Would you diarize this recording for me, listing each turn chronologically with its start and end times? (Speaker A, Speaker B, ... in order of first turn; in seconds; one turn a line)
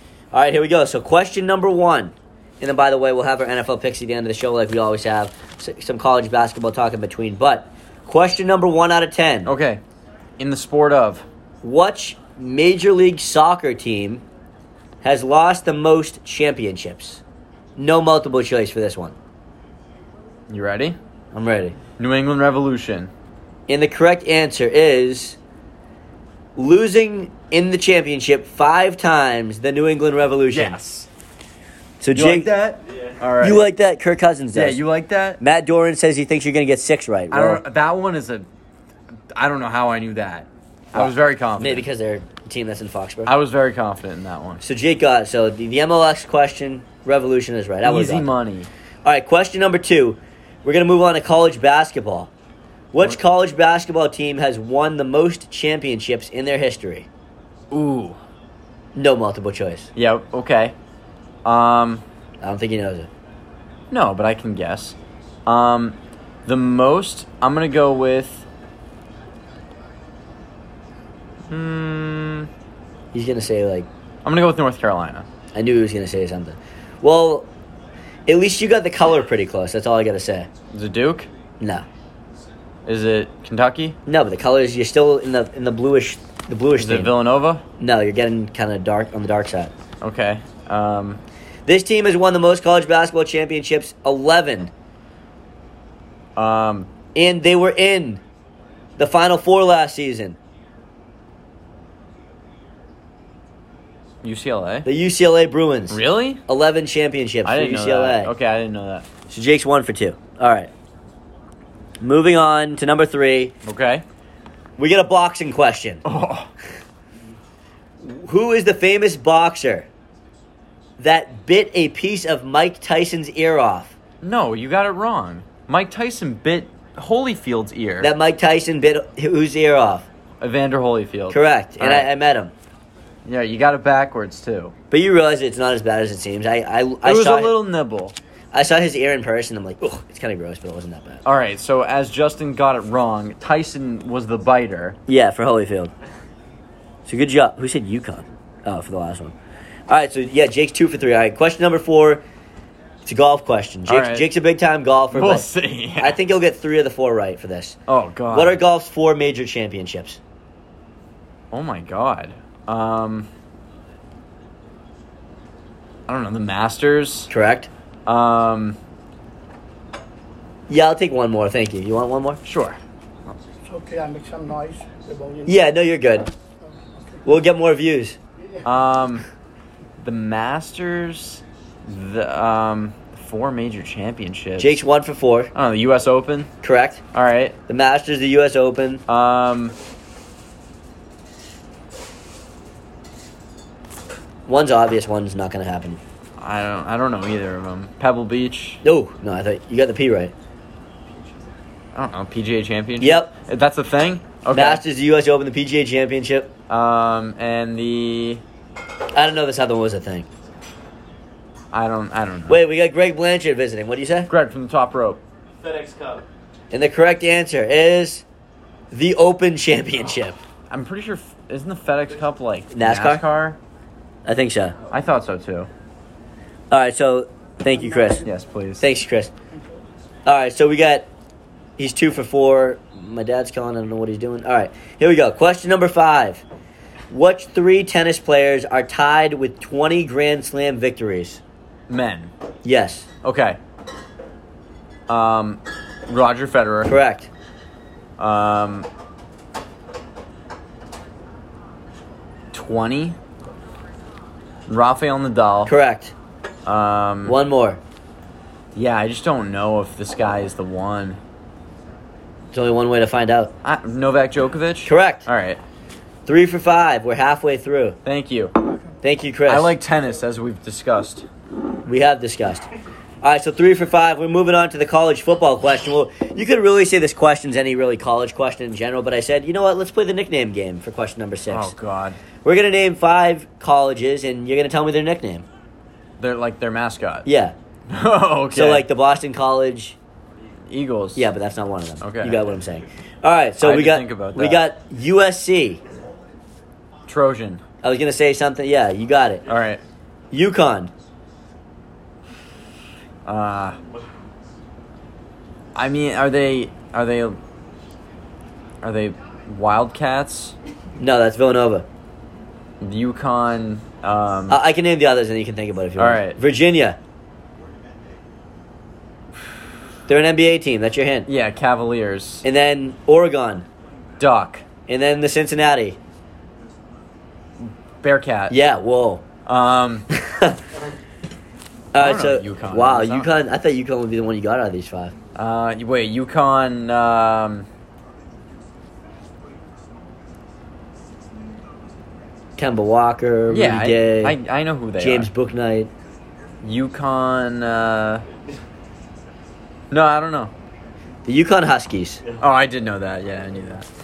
Speaker A: 0.3-9.5
Speaker B: 9.4-9.8
Speaker B: 10.4-11.2
Speaker A: 11.6-14.2
Speaker A: 15.0-17.2
Speaker A: 17.8-19.1
Speaker B: 20.5-21.0
Speaker A: 21.3-21.8
Speaker B: 22.0-23.1
Speaker A: 23.7-25.4
Speaker A: 26.6-30.8
Speaker B: 30.5-31.1
Speaker A: 32.0-32.5
Speaker B: 32.1-33.6
Speaker A: 33.4-34.8
Speaker B: 34.5-35.4
Speaker A: 35.4-37.6
Speaker B: 37.3-38.5
Speaker B: 39.3-41.8
Speaker A: 40.9-43.3
Speaker B: 43.2-44.6
Speaker A: 44.6-48.3
Speaker B: 47.8-48.7
Speaker A: 49.0-52.3
Speaker A: 52.9-57.1
Speaker B: 57.7-58.2
Speaker A: 58.9-59.9
Speaker B: 60.0-60.8
Speaker B: 61.4-62.0
Speaker A: 62.4-63.1
Speaker B: 63.9-68.5
Speaker B: 71.5-72.5
Speaker A: 73.1-73.9
Speaker B: 74.2-75.3
Speaker A: 75.5-77.5
Speaker A: 78.3-80.5
Speaker B: 80.7-81.3
Speaker A: 81.6-81.8
Speaker B: 82.8-84.0
Speaker A: 84.1-87.1
Speaker B: 86.8-87.6
Speaker A: 87.8-89.7
Speaker B: 90.0-91.2
Speaker A: 91.7-94.7
Speaker B: 96.3-96.9
Speaker A: 97.1-98.2
Speaker A: 99.0-100.4
Speaker B: 104.2-104.9
Speaker A: 104.8-108.3
Speaker B: 105.9-106.4
Speaker B: 107.4-109.1
Speaker A: 109.3-110.7
Speaker A: 112.0-113.5
Speaker B: 113.6-114.0
Speaker A: 114.8-116.0
Speaker B: 116.0-116.5
Speaker A: 118.0-119.9
Speaker A: 121.0-123.9
Speaker B: 124.2-128.1
Speaker A: 128.0-130.1
Speaker B: 130.4-132.1
Speaker A: 131.3-132.5
Speaker B: 133.2-134.7
Speaker A: 134.9-137.5
Speaker B: 137.0-138.2
Speaker A: 138.5-141.2
Speaker B: 141.2-145.0
Speaker A: 145.1-145.9
Speaker A: 147.1-149.3
Speaker A: 149.9-152.2
Speaker A: 153.0-157.8
Speaker B: 153.9-154.3
Speaker B: 155.1-156.2
Speaker B: 157.9-158.6
Speaker A: 158.3-160.2
Speaker B: 161.5-163.3
Speaker B: 166.1-167.3
Speaker A: 167.3-167.7
Speaker B: 168.1-168.8
Speaker A: 170.7-172.4
Speaker B: 172.4-172.8
Speaker C: 173.6-175.6
Speaker A: 175.4-176.3
Speaker A: 177.2-178.2
Speaker B: 178.6-179.2
Speaker B: 180.0-184.8
Speaker A: 184.6-185.5
Speaker B: 185.5-186.5
Speaker A: 186.6-187.0
Speaker B: 187.1-187.6
Speaker A: 187.7-189.0
Speaker B: 189.1-189.8
Speaker A: 194.5-196.0
Speaker B: 196.4-198.8
Speaker A: 198.8-200.3
Speaker B: 201.9-204.8
Speaker A: 203.0-203.3
Speaker A: 204.5-206.5
Speaker B: 206.7-208.4
Speaker A: 209.1-210.3
Speaker B: 211.7-212.6
Speaker A: 212.5-214.3
Speaker B: 214.3-215.2
Speaker C: 215.6-216.2
Speaker A: 216.7-218.2
Speaker A: 218.9-220.4
Speaker B: 220.7-223.6
Speaker A: 222.7-223.2
Speaker A: 224.2-224.8
Speaker B: 224.9-225.7
Speaker A: 226.7-228.2
Speaker B: 228.2-228.8
Speaker A: 228.8-229.3
Speaker A: 230.2-231.1
Speaker A: 231.8-236.4
Speaker A: 237.1-241.4
Speaker B: 241.9-242.3
Speaker A: 242.6-243.1
Speaker B: 243.2-243.6
Speaker B: 245.1-246.9
Speaker A: 246.8-247.3
Speaker B: 248.2-248.9
Speaker B: 252.5-253.2
Speaker B: 254.7-255.7
Speaker A: 255.7-256.1
Speaker B: 256.6-257.4
Speaker A: 257.2-257.8
Speaker B: 258.7-261.2
Speaker A: 262.5-263.5
Speaker B: 263.6-265.6
Speaker A: 264.9-265.3
Speaker A: 266.2-268.0
Speaker B: 268.0-268.5
Speaker A: 269.0-269.7
Speaker B: 269.5-271.2
Speaker A: 271.8-272.7
Speaker A: 273.2-281.7
Speaker B: 281.5-282.2
Speaker A: 282.4-285.4
Speaker B: 286.2-287.3
Speaker A: 287.2-287.5
Speaker B: 287.9-288.9
Speaker A: 288.5-289.9
Speaker B: 290.7-291.3
Speaker A: 291.1-295.8
Speaker B: 292.0-292.5
Speaker B: 293.6-294.6
Speaker B: 297.1-297.6
Speaker A: 297.8-299.4
Speaker B: 299.5-299.8
Speaker A: 300.3-300.9
Speaker B: 303.2-303.8
Speaker B: 305.7-307.4
Speaker B: 308.8-310.5
Speaker A: 311.0-311.9
Speaker B: 312.8-314.6
Speaker A: 314.5-317.0
Speaker B: 316.0-316.4
Speaker A: 320.1-321.3
Speaker B: 321.3-322.4
Speaker A: 322.4-323.6
Speaker B: 324.2-324.6
Speaker A: 324.9-326.0
Speaker B: 327.6-328.6
Speaker A: 328.5-329.2
Speaker B: 329.4-330.1
Speaker A: 330.1-330.6
Speaker A: 331.9-335.1
Speaker B: 332.0-333.3
Speaker B: 335.3-337.7
Speaker A: 342.6-344.4
Speaker B: 343.5-345.3
Speaker A: 345.0-345.9
Speaker B: 346.6-348.2
Speaker B: 349.9-350.5
Speaker A: 351.2-352.2
Speaker B: 352.4-353.9